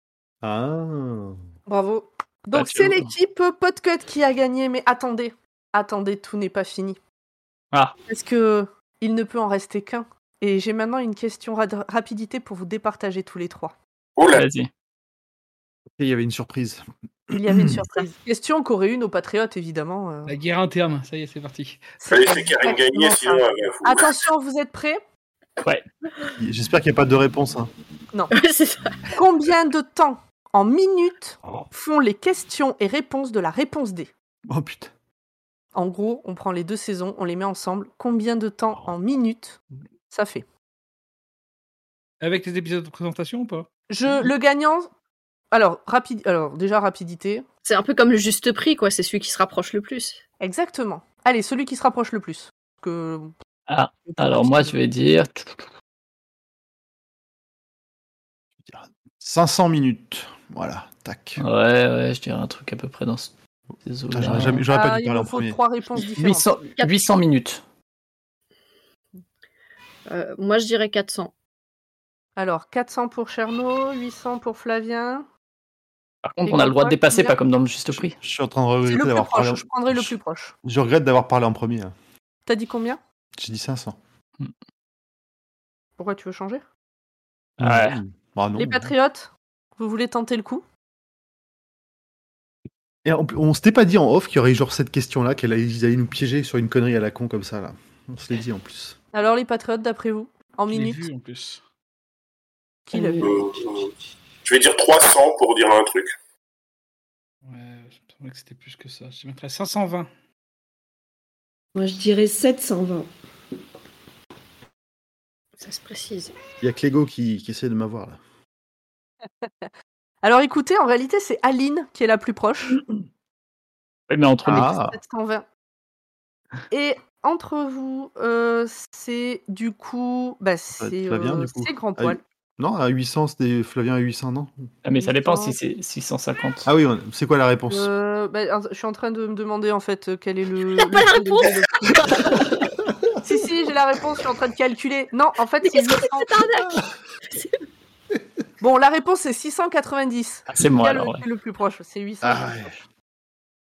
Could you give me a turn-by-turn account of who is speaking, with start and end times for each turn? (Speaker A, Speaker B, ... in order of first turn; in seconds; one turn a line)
Speaker A: 0.4-1.4
Speaker B: 1.7-7.0
Speaker C: 2.5-3.1
Speaker B: 8.1-13.7
Speaker D: 14.2-14.5
Speaker C: 14.3-14.7
Speaker A: 16.0-17.8
Speaker B: 17.3-20.3
Speaker E: 20.3-21.9
Speaker B: 22.0-25.0
Speaker D: 22.1-24.1
Speaker A: 26.4-27.7
Speaker F: 28.3-29.1
Speaker B: 29.1-34.1
Speaker A: 34.5-34.9
Speaker B: 35.7-40.4
Speaker E: 42.2-44.3
Speaker B: 43.9-44.9
Speaker B: 45.5-47.5
Speaker F: 47.6-50.2
Speaker B: 50.4-53.3
Speaker C: 53.7-55.7
Speaker B: 54.0-54.8
Speaker A: 58.6-61.4
Speaker C: 61.4-63.3
Speaker C: 63.8-64.6
Speaker A: 64.1-65.6
Speaker B: 64.7-66.6
Speaker C: 66.0-67.6
Speaker F: 70.1-71.3
Speaker B: 72.4-75.3
Speaker C: 76.2-78.2
Speaker B: 76.4-77.3
Speaker A: 78.2-81.9
Speaker B: 78.8-80.5
Speaker B: 82.5-83.0
Speaker A: 83.4-84.0
Speaker B: 86.0-86.7
Speaker C: 87.6-88.0
Speaker A: 87.6-88.9
Speaker B: 88.6-90.6
Speaker A: 93.0-99.0
Speaker B: 99.1-101.0
Speaker E: 100.7-101.6
Speaker B: 102.9-103.4
Speaker G: 102.9-103.5
Speaker D: 103.2-103.9
Speaker D: 104.4-106.1
Speaker E: 107.5-110.1
Speaker G: 111.7-113.1
Speaker F: 115.6-116.3
Speaker A: 116.6-118.2
Speaker B: 119.4-119.7
Speaker B: 120.2-122.8
Speaker C: 124.1-124.7
Speaker B: 124.4-125.5
Speaker A: 124.5-125.0
Speaker B: 126.7-132.2
Speaker A: 130.8-134.5
Speaker C: 134.8-136.7
Speaker B: 134.9-135.6
Speaker A: 136.7-137.9
Speaker B: 137.7-142.5
Speaker F: 140.8-142.5
Speaker B: 143.2-146.3
Speaker F: 145.6-146.8
Speaker B: 148.6-152.7
Speaker C: 150.5-151.2
Speaker A: 152.2-152.8